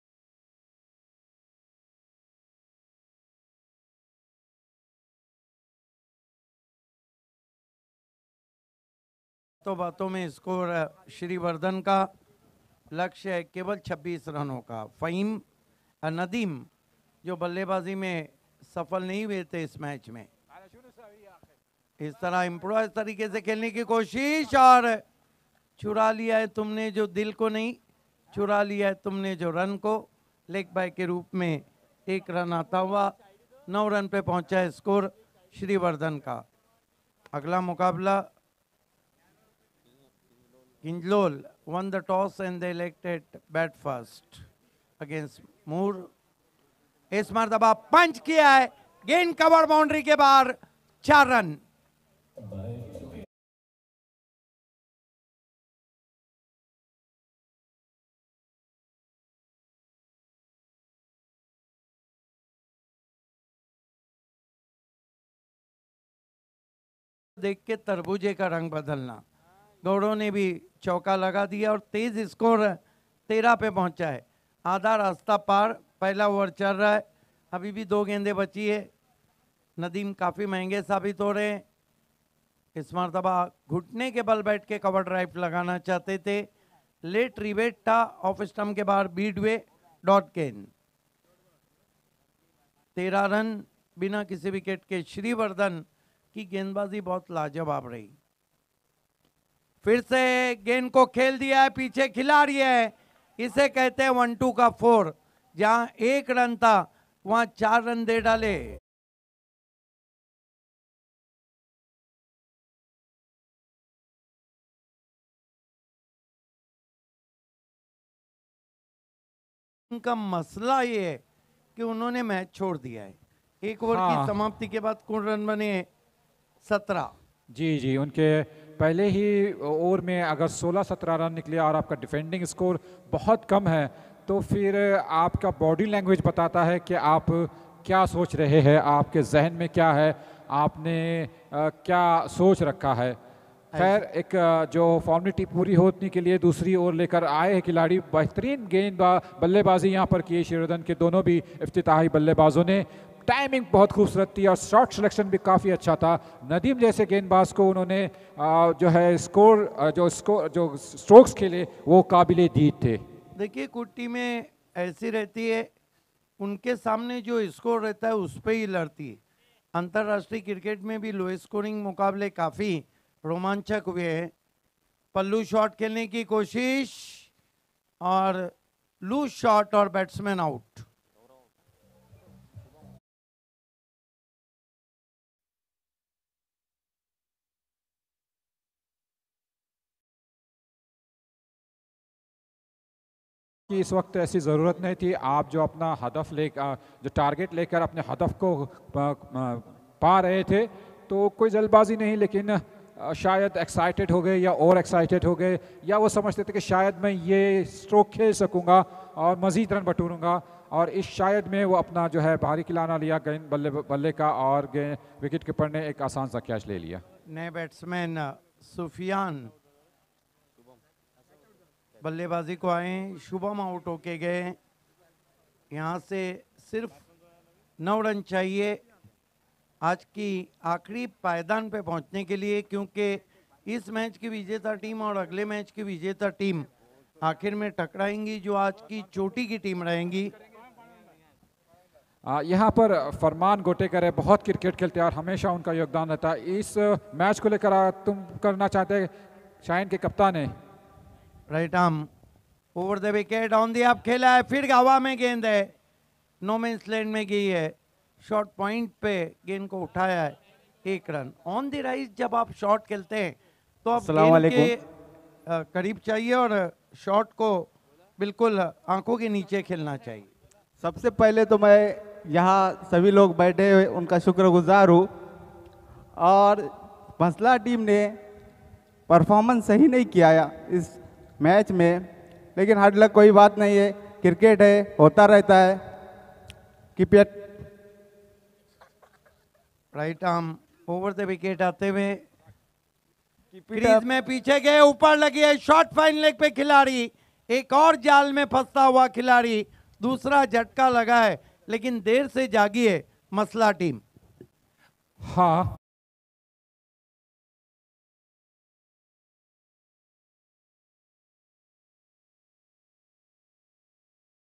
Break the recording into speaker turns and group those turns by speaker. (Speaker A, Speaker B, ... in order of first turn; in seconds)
Speaker A: 9.6-12.1, 12.9-15.4, 16.0-16.7, 17.2-20.3, 22.0-25.0, 25.8-27.8, 28.3-33.1, 33.7-36.4, 37.3-38.3, 40.8-44.4, 45.0-46.1, 47.1-51.6, 67.4-69.2, 69.8-78.9, 79.8-81.6, 82.8-86.5, 87.0-90.7, 93.0-98.1, 99.8-108.8, 119.9-121.2, 121.8-125.9, 126.7-127.1, 143.7-144.0, 163.4-165.7, 166.4-169.2, 169.7-174.3, 175.1-177.3, 178.0-180.9, 217.3-219.5, 222.0-224.6, 225.7-227.0, 227.8-228.8, 229.8-236.7, 237.2-240.3, 251.5-252.1, 252.8-255.7, 256.4-264.9, 265.5-270.3, 289.9-292.2, 293.7-304.0
Speaker B: 123.9-124.4, 127.5-143.2, 143.8-163.0, 193.7-217.0, 242.3-249.1, 249.6-250.5, 305.2-305.8
Speaker C: 264.0-264.7, 270.8-275.1, 276.2-278.2, 279.1-285.9, 287.0-287.5, 293.5-294.0